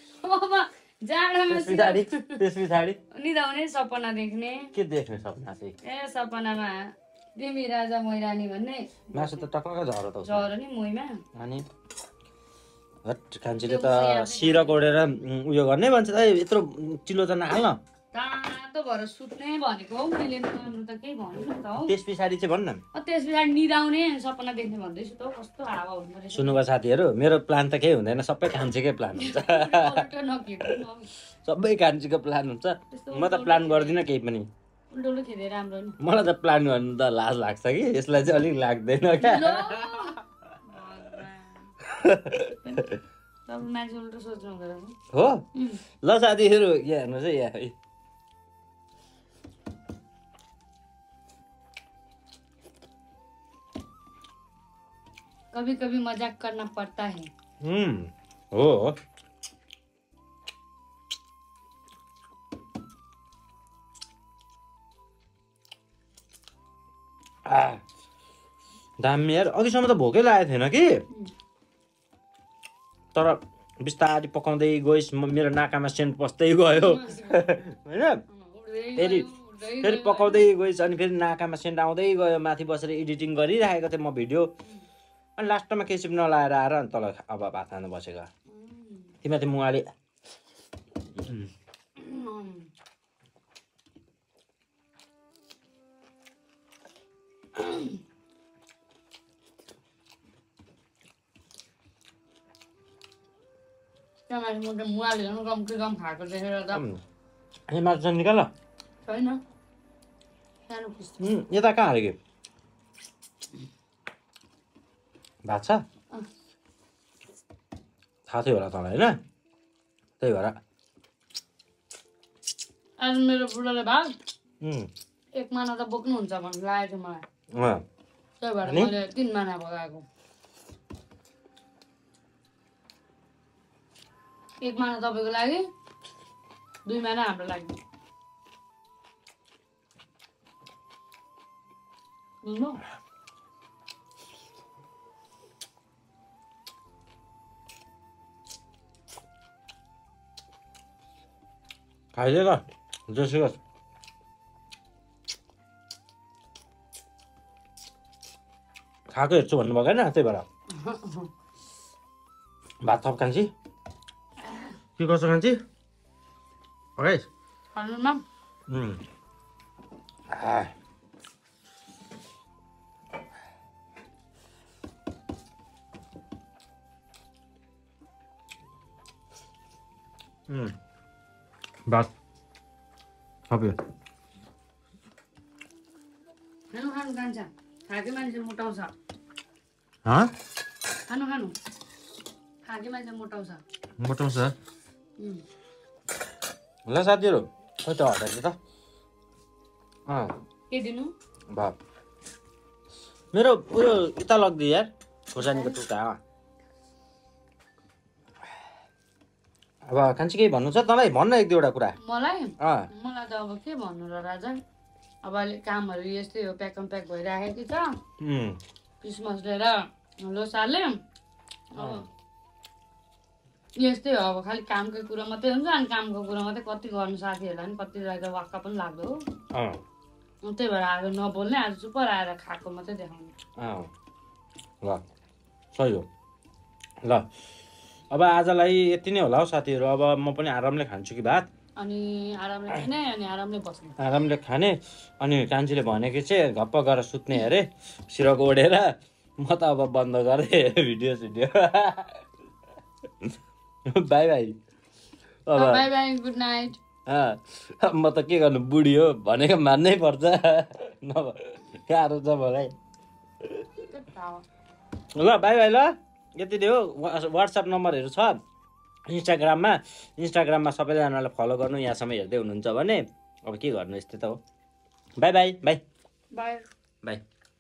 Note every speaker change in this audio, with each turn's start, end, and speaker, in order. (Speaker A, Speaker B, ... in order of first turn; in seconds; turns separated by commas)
Speaker A: 0.2-2.4, Speaker B: 1.5-3.0, Speaker A: 3.1-4.7, Speaker B: 4.7-5.8, Speaker A: 5.8-9.4, Speaker B: 9.1-10.5, Speaker A: 10.2-11.2, Speaker B: 11.3-11.7, Speaker B: 13.1-17.8, Speaker A: 13.6-14.8, Speaker A: 18.1-21.9, Speaker B: 21.8-22.8, Speaker A: 22.9-26.6, Speaker B: 26.3-30.1, Speaker A: 29.2-31.1, Speaker B: 31.4-34.5, Speaker A: 32.9-34.0, Speaker A: 34.9-36.0, Speaker B: 36.0-40.1, Speaker A: 39.2-41.7, Speaker B: 41.8-43.0, Speaker A: 42.6-45.0, Speaker B: 45.1-45.4, Speaker A: 45.5-45.8, Speaker B: 46.0-47.8, Speaker A: 55.5-57.3, Speaker B: 57.6-59.0, Speaker B: 67.5-67.8, Speaker B: 69.0-71.0, Speaker B: 73.1-78.2, Speaker A: 76.7-77.5, Speaker A: 78.3-80.5, Speaker B: 79.0-79.3, Speaker B: 79.8-84.5, Speaker B: 85.4-88.3, Speaker A: 88.5-89.2, Speaker B: 89.2-89.9, Speaker B: 91.2-91.5, Speaker A: 92.0-92.7, Speaker A: 97.6-97.9, Speaker A: 104.3-106.8, Speaker B: 106.7-107.0, Speaker B: 107.7-108.5, Speaker A: 109.1-109.4, Speaker A: 110.7-111.2, Speaker B: 111.2-112.2, Speaker B: 115.5-115.8, Speaker B: 118.3-119.2, Speaker B: 120.2-120.6, Speaker A: 123.0-124.1, Speaker B: 124.6-124.9, Speaker A: 125.4-127.2, Speaker B: 127.5-127.8, Speaker A: 128.4-130.1, Speaker B: 128.7-128.9, Speaker A: 134.6-135.7, Speaker A: 136.9-137.8, Speaker A: 142.4-142.8, Speaker B: 152.1-153.6, Speaker B: 159.1-160.5, Speaker A: 160.8-161.3, Speaker B: 162.8-163.5, Speaker A: 164.4-164.7, Speaker B: 165.0-165.6, Speaker B: 167.0-167.3, Speaker A: 167.8-168.2, Speaker B: 168.7-169.0, Speaker B: 170.3-170.7, Speaker B: 180.5-180.8, Speaker B: 183.5-183.8, Speaker A: 186.7-188.9, Speaker B: 190.1-190.3, Speaker A: 191.1-191.6, Speaker A: 192.7-193.6, Speaker B: 194.0-194.6, Speaker B: 196.9-198.6, Speaker B: 200.1-200.3, Speaker A: 200.7-201.1, Speaker B: 201.5-201.8, Speaker B: 203.3-206.2, Speaker A: 205.4-205.8, Speaker B: 209.9-212.0, Speaker A: 212.0-214.6, Speaker B: 212.6-212.9, Speaker A: 215.2-217.9, Speaker B: 218.2-218.6, Speaker A: 219.0-221.0, Speaker A: 221.7-222.1, Speaker B: 221.8-222.1, Speaker A: 223.8-229.2, Speaker B: 229.5-229.8, Speaker A: 230.4-233.3, Speaker B: 233.6-233.9, Speaker B: 235.7-236.1, Speaker B: 237.0-237.3, Speaker B: 238.1-241.5, Speaker A: 241.8-244.0, Speaker B: 244.0-252.2, Speaker B: 253.9-254.6, Speaker B: 255.5-255.9, Speaker A: 255.5-256.8, Speaker B: 257.1-262.7, Speaker A: 263.8-264.4, Speaker B: 265.1-268.4, Speaker B: 269.1-274.4, Speaker B: 275.2-275.8, Speaker A: 276.3-276.6